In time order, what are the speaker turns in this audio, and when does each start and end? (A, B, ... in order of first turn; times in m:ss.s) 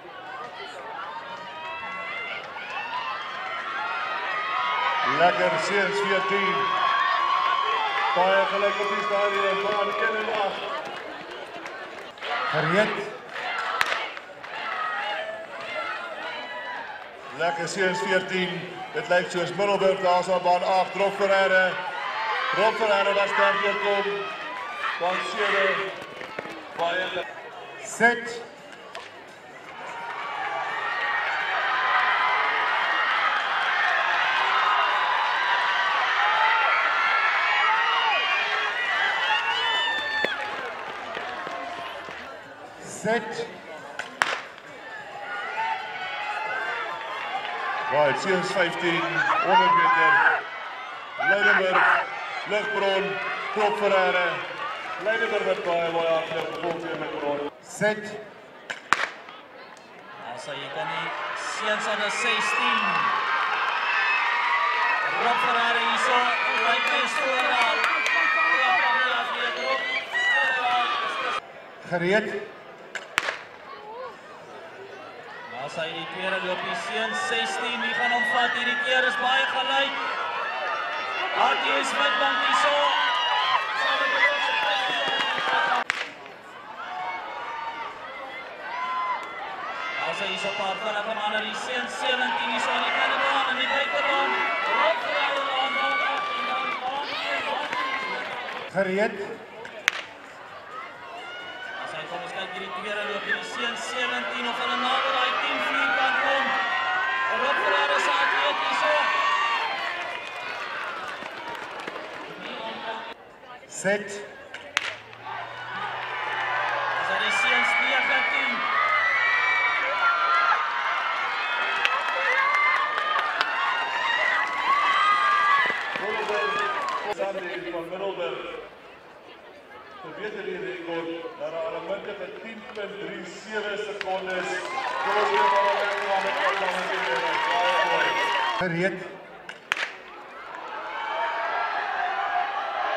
0:05.0-0:06.7 A
0:08.1-0:10.7 A
0:12.5-0:13.1 B
0:17.3-0:21.8 A
0:22.5-0:24.3 A
0:25.0-0:25.9 A
0:26.7-0:27.2 A
0:27.8-0:28.4 B
0:42.8-0:43.5 B
0:47.9-0:50.2 A
0:51.2-0:54.4 A
0:55.0-0:57.5 A
0:57.6-0:58.2 B
1:00.2-1:03.2 C
1:05.0-1:11.4 C
1:11.8-1:12.5 B
1:15.5-1:20.1 C
1:21.3-1:23.1 C
1:23.7-1:25.7 C
1:29.9-1:38.3 C
1:38.7-1:39.4 B
1:41.8-1:46.6 C
1:47.2-1:49.2 C
1:52.2-1:53.0 C
1:53.7-1:54.3 B
1:56.9-1:58.7 C
2:06.0-2:08.6 A
2:10.0-2:18.2 A
2:18.6-2:19.1 B